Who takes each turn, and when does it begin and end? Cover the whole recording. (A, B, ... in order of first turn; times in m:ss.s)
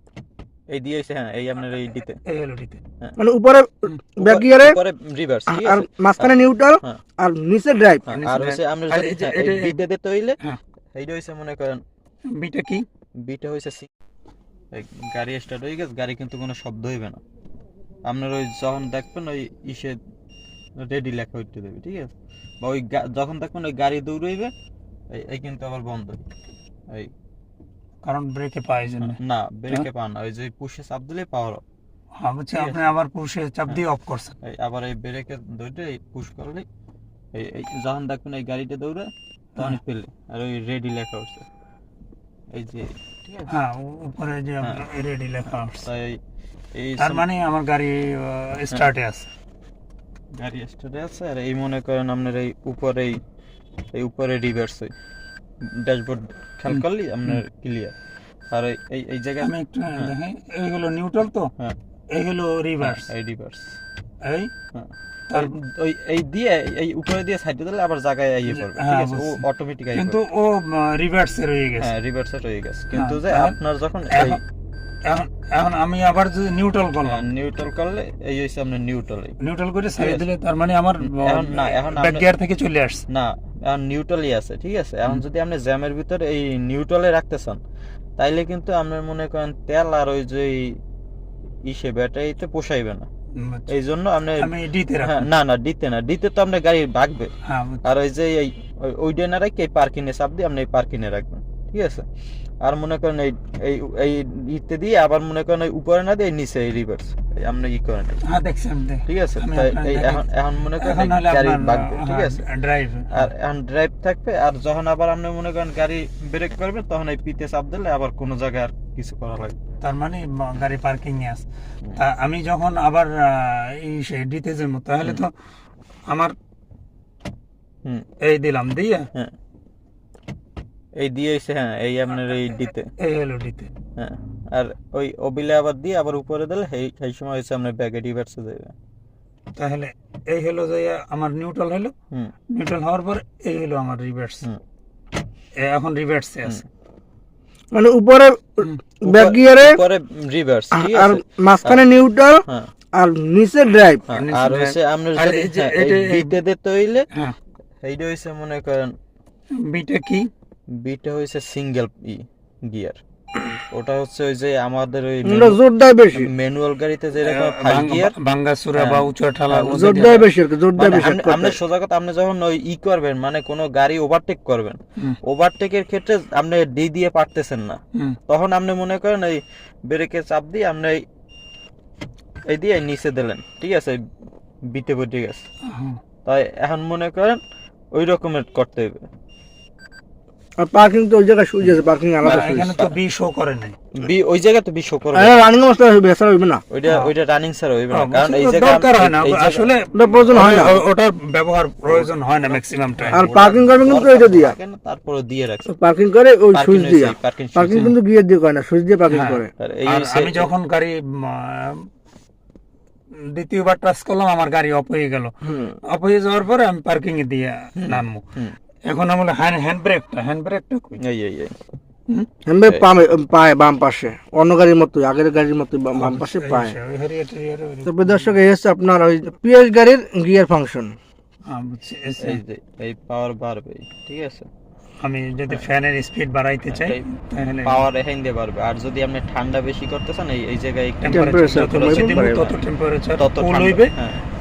0:00.7-0:02.2 A
0:02.3-0:02.8 B
0:03.2-0:04.8 C
0:04.2-0:07.0 A
0:05.5-0:08.0 C
0:08.1-0:09.8 B
0:08.1-0:10.4 A
0:10.9-0:11.8 A
0:12.3-0:12.9 B
0:13.2-0:13.9 A
0:14.7-0:17.2 A
0:18.0-0:20.0 A
0:20.8-0:24.5 A
0:25.1-0:26.2 A
0:28.0-0:29.2 B
0:29.0-0:31.6 A
0:32.2-0:34.4 B
0:32.5-0:32.9 A
0:34.4-0:36.7 A
0:37.3-0:41.5 A
0:42.5-0:43.5 A
0:43.5-0:45.9 B
0:45.5-0:46.2 A
0:46.8-0:47.2 A
0:47.0-0:49.3 B
0:50.4-0:53.2 A
0:53.9-0:54.9 A
0:55.6-0:57.9 A
0:56.7-0:57.4 B
0:58.5-1:00.1 A
0:59.4-1:01.5 B
1:02.1-1:03.1 B
1:02.8-1:03.7 A
1:04.2-1:04.5 B
1:04.7-1:10.2 A
1:08.5-1:09.4 B
1:10.0-1:11.9 B
1:11.8-1:14.4 A
1:12.9-1:14.4 B
1:15.0-1:17.2 B
1:17.0-1:19.4 A
1:19.4-1:23.0 B
1:20.0-1:20.3 A
1:21.0-1:22.3 A
1:23.1-1:27.6 A
1:28.2-1:30.8 A
1:31.7-1:33.1 A
1:33.4-1:33.7 B
1:33.7-1:34.5 A
1:34.4-1:35.3 B
1:35.0-1:37.3 A
1:37.5-1:37.8 B
1:37.8-1:42.0 A
1:42.6-1:48.2 A
1:48.3-1:50.2 B
1:49.1-1:52.4 A
1:50.8-1:53.3 B
1:53.1-1:59.6 A
1:59.8-2:01.4 B
2:02.0-2:05.3 B
2:06.1-2:06.4 B
2:08.2-2:09.1 B
2:11.0-2:12.9 A
2:13.0-2:13.7 B
2:14.0-2:18.7 A
2:19.6-2:21.9 B
2:22.5-2:24.4 B
2:25.6-2:26.6 B
2:27.7-2:29.8 C
2:29.0-2:31.8 A
2:30.7-2:32.4 C
2:33.0-2:34.0 C
2:34.1-2:37.1 A
2:34.1-2:36.4 B
2:37.8-2:39.0 A
2:39.6-2:40.3 B
2:40.8-2:45.6 A
2:45.2-2:46.3 C
2:46.1-2:48.2 A
2:47.2-2:50.3 B
2:48.8-3:01.0 A
2:49.7-2:51.6 C
3:02.5-3:04.0 A
3:04.7-3:05.4 A
3:05.7-3:06.0 B
3:06.2-3:07.4 A
3:07.9-3:09.0 A
3:10.6-3:12.7 C
3:12.2-3:13.0 A
3:12.2-3:13.8 B
3:13.9-3:15.4 A
3:15.1-3:16.6 C
3:16.7-3:19.7 A
3:17.9-3:23.2 B
3:19.9-3:20.8 C
3:20.2-3:20.8 A
3:21.8-3:25.7 A
3:23.1-3:24.6 C
3:25.7-3:29.5 C
3:26.5-3:28.0 A
3:29.1-3:31.9 B
3:29.6-3:30.5 A
3:33.3-3:35.3 B
3:35.4-3:35.8 C
3:35.9-3:38.2 B
3:37.8-3:38.6 A
3:38.9-3:41.0 B
3:41.0-3:41.5 A
3:42.5-3:46.8 C
3:45.9-3:48.3 B
3:47.9-3:51.0 C
3:51.5-3:52.4 B
3:52.2-3:54.5 A
3:55.0-3:57.8 B
3:56.7-3:57.0 A
3:57.6-4:02.6 A
4:01.0-4:03.9 B
4:01.1-4:02.5 C
4:03.2-4:04.2 A